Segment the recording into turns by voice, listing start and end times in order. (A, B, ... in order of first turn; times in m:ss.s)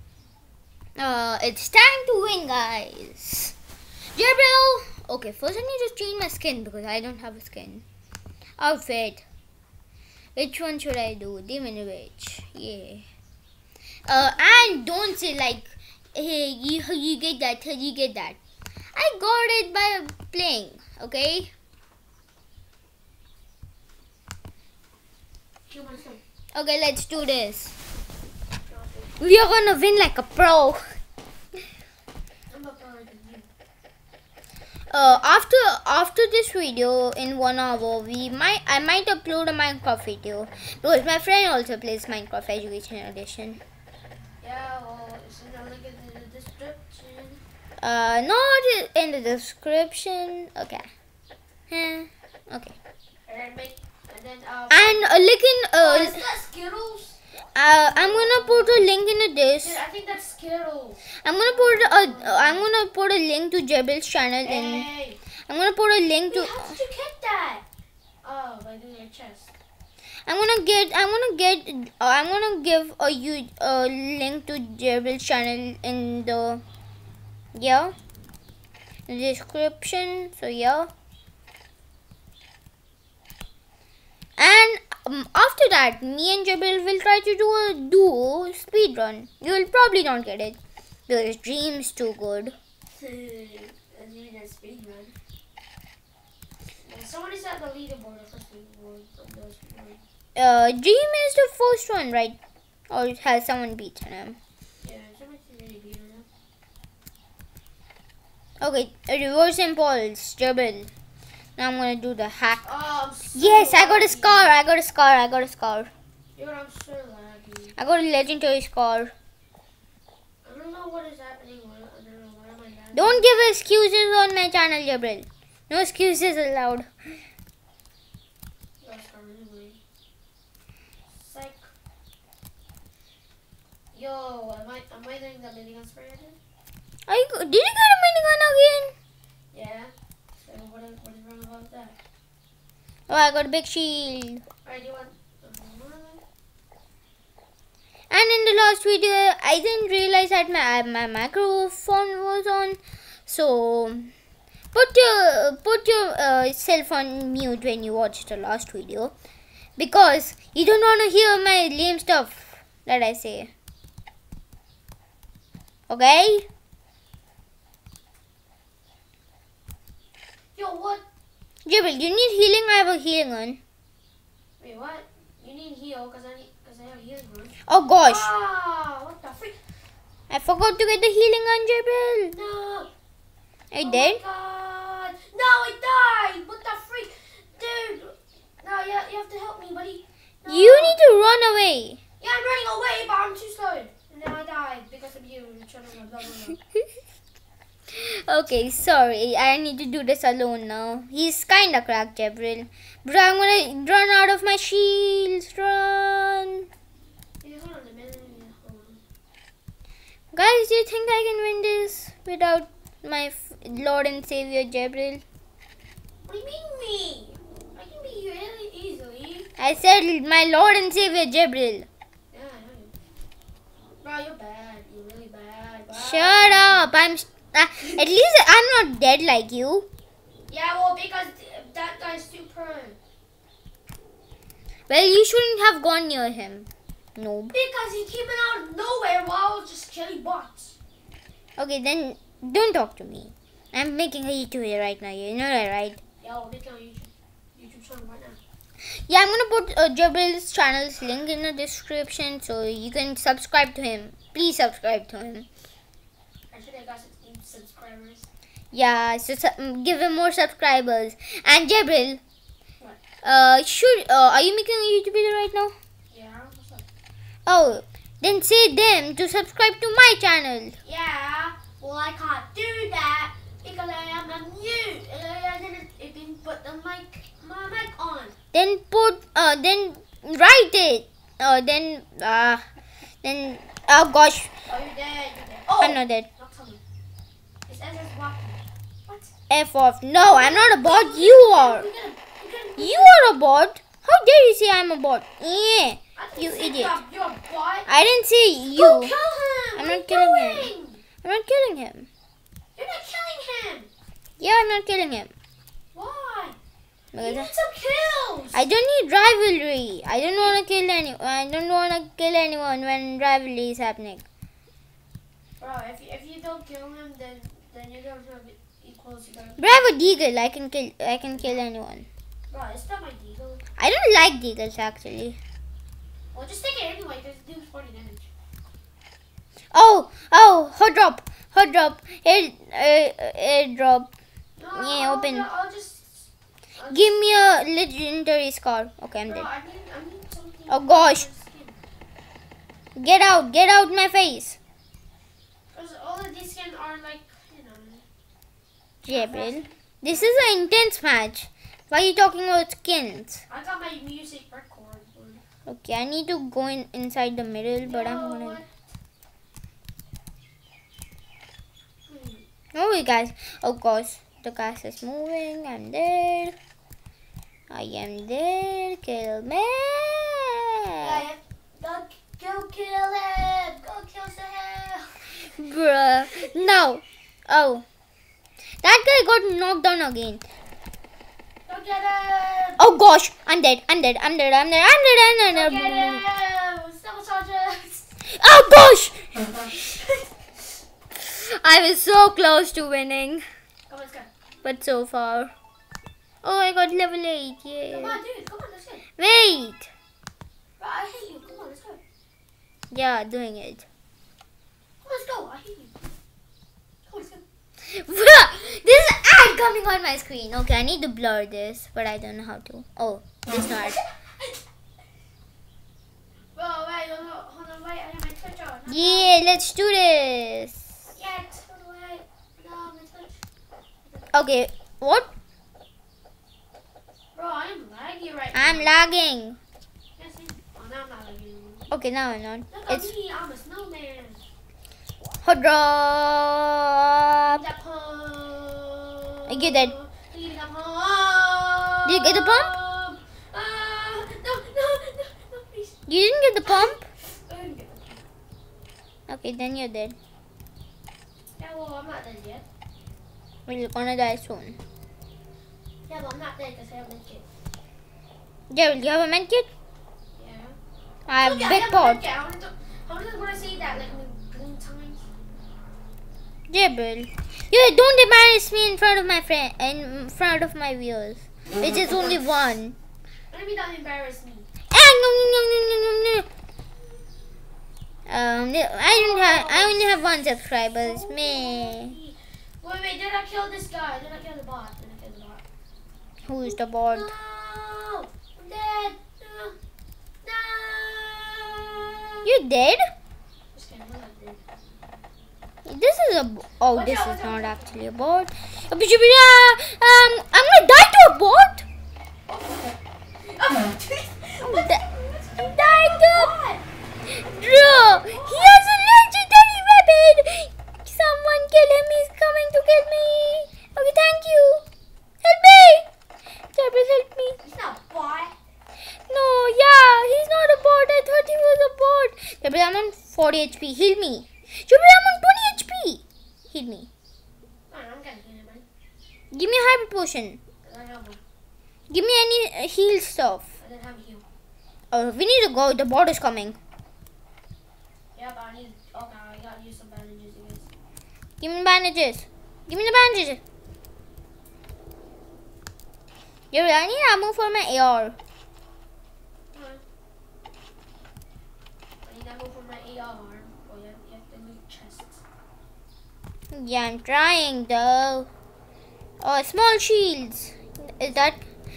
0:01.0-0:03.5 A
0:04.1-0:07.8 A
0:08.6-0:09.2 A
0:10.3-0:13.0 A
0:14.0-0:18.4 A
0:18.9-0:21.5 A
0:25.7-0:26.2 B
0:26.5-0:27.7 A
0:28.7-0:29.1 B
0:29.2-0:30.8 A
0:32.5-0:33.5 B
0:34.9-0:43.6 A
0:34.9-0:35.4 B
0:44.4-0:47.4 B
0:47.8-0:50.9 A
0:51.7-0:52.8 A
0:53.3-0:57.2 B
0:54.7-0:56.2 A
0:57.5-0:59.8 A
0:57.8-0:58.9 B
0:59.6-1:02.7 B
1:01.2-1:04.9 A
1:04.4-1:05.2 B
1:05.5-1:06.8 A
1:06.3-1:07.6 B
1:08.2-1:09.5 B
1:10.2-1:16.6 A
1:17.5-1:17.9 A
1:19.1-1:20.9 A
1:24.4-1:32.6 A
1:32.9-1:35.1 B
1:36.8-1:40.0 B
1:40.3-1:42.4 A
1:42.9-1:44.4 A
1:44.8-1:46.2 B
1:48.6-1:50.9 A
1:51.6-1:52.6 A
1:52.6-1:54.5 B
1:53.3-1:55.9 A
1:56.4-1:57.8 B
1:57.8-1:59.1 A
2:00.4-2:03.3 B
2:02.9-2:07.1 A
2:08.8-2:09.8 B
2:11.1-2:11.7 B
2:13.9-2:16.4 B
2:17.1-2:18.9 A
2:19.5-2:21.9 B
2:23.1-2:24.4 A
2:24.6-2:26.2 B
2:28.1-2:34.1 A
2:34.7-2:39.1 A
2:39.8-2:43.5 A
2:45.9-2:46.5 A
2:50.5-2:51.0 B
2:51.6-2:53.6 A
2:54.6-2:59.6 B
2:57.6-2:58.3 A
3:00.3-3:02.3 A
3:02.3-3:02.9 B
3:03.7-3:04.2 A
3:03.8-3:11.0 B
3:10.5-3:12.0 A
3:12.2-3:16.6 B
3:17.9-3:26.7 A
3:27.4-3:29.0 B
3:30.3-3:35.2 A
3:36.2-3:39.5 B
3:39.6-3:41.9 A
3:42.3-3:42.9 B
3:44.0-3:46.9 B
3:45.9-3:49.9 A
3:50.5-3:53.0 B
3:54.9-3:57.5 A
3:57.5-4:00.8 B
4:01.6-4:06.0 A
4:06.2-4:08.4 B
4:08.8-4:15.5 A
4:16.5-4:18.3 B
4:18.7-4:22.2 A
4:23.2-4:25.7 A
4:26.1-4:26.8 B
4:27.4-4:30.8 A
4:30.8-4:38.3 B
4:38.5-4:42.7 A
4:43.2-4:44.5 A
4:44.7-4:46.8 B
4:45.8-4:46.3 A
4:47.7-4:49.3 B
4:49.5-4:51.8 A
4:50.2-4:53.2 B
4:52.8-4:57.0 A
4:56.2-4:57.9 B
4:57.9-4:59.1 A
4:58.7-5:01.0 B
4:59.8-5:00.7 A
5:01.2-5:02.1 A
5:02.8-5:03.9 B
5:04.4-5:05.3 A
5:05.9-5:06.6 B
5:07.1-5:07.5 A
5:07.2-5:08.6 B
5:08.5-5:14.2 A
5:15.6-5:20.2 B
5:19.6-5:22.1 A
5:22.5-5:23.6 B
5:23.8-5:25.4 A
5:26.3-5:28.3 B
5:29.7-5:34.1 A
5:34.6-5:37.2 B
5:34.7-5:35.5 A
5:36.9-5:39.5 A
5:39.3-5:41.8 B
5:40.7-5:41.3 A
5:43.0-5:44.6 A
5:45.7-5:48.0 B
5:49.0-5:53.4 A
5:49.1-5:50.4 B
5:53.5-5:55.4 B
5:55.6-5:58.6 A
5:57.8-5:58.7 B
6:02.1-6:02.4 B
6:02.7-6:06.6 A
6:07.7-6:11.2 A
6:11.0-6:15.5 B
6:15.4-6:17.8 A
6:16.3-6:16.8 B
6:18.8-6:20.4 A
6:21.7-6:22.9 B
6:22.8-6:26.2 A
6:25.5-6:28.1 B
6:28.2-6:29.6 A
6:29.7-6:30.1 B
6:31.1-6:33.4 A
6:33.9-6:34.3 B
6:34.6-6:35.5 A
6:36.4-6:38.2 A
6:37.9-6:39.0 B
6:39.2-6:39.9 A
6:40.8-6:42.0 B
6:42.9-6:43.8 A
6:45.0-6:46.0 B
6:47.1-6:47.4 B
6:47.8-6:54.0 A
6:53.5-6:54.6 B
6:56.5-6:59.4 B
6:58.9-7:00.9 A
7:01.1-7:03.4 B
7:04.3-7:05.3 A
7:07.3-7:08.9 B
7:08.5-7:09.6 A
7:10.2-7:11.9 B
7:11.9-7:13.1 A
7:12.7-7:14.4 B
7:15.4-7:17.6 A
7:17.5-7:26.0 B
7:19.5-7:19.9 A
7:22.0-7:22.7 A
7:26.1-7:27.0 A
7:26.6-7:28.2 B
7:29.3-7:30.2 A
7:31.6-7:32.6 B
7:33.7-7:34.8 A
7:36.1-7:37.4 B
7:38.7-7:39.7 A
7:40.3-7:40.8 B
7:41.2-7:42.2 A
7:41.4-7:45.2 B
7:46.7-7:53.0 A
7:53.5-7:54.7 B
7:54.9-7:56.5 A
7:58.3-8:02.1 A
7:59.0-8:00.2 B
8:01.0-8:05.6 B
8:06.4-8:07.3 A
8:06.6-8:09.8 B
8:10.4-8:12.5 B
8:12.4-8:13.1 A
8:13.7-8:14.6 B
8:15.8-8:21.8 A
8:16.9-8:18.0 B
8:22.5-8:26.8 B
8:24.6-8:25.0 A
8:25.6-8:26.5 A
8:27.3-8:34.8 A
8:27.4-8:28.7 B
8:35.4-8:36.0 A
8:36.7-8:37.6 A
8:37.6-8:38.5 B
8:39.1-8:47.1 A
8:47.9-8:48.8 B
8:49.5-8:50.6 A
8:50.8-8:51.4 B
8:52.1-8:53.6 A
8:53.8-8:54.4 B
8:55.1-8:56.8 A
8:58.3-9:00.9 B
9:01.6-9:03.6 A
9:06.7-9:08.4 A
9:09.7-9:10.0 B
9:12.2-9:15.4 B
9:16.7-9:18.5 A
9:19.4-9:21.6 A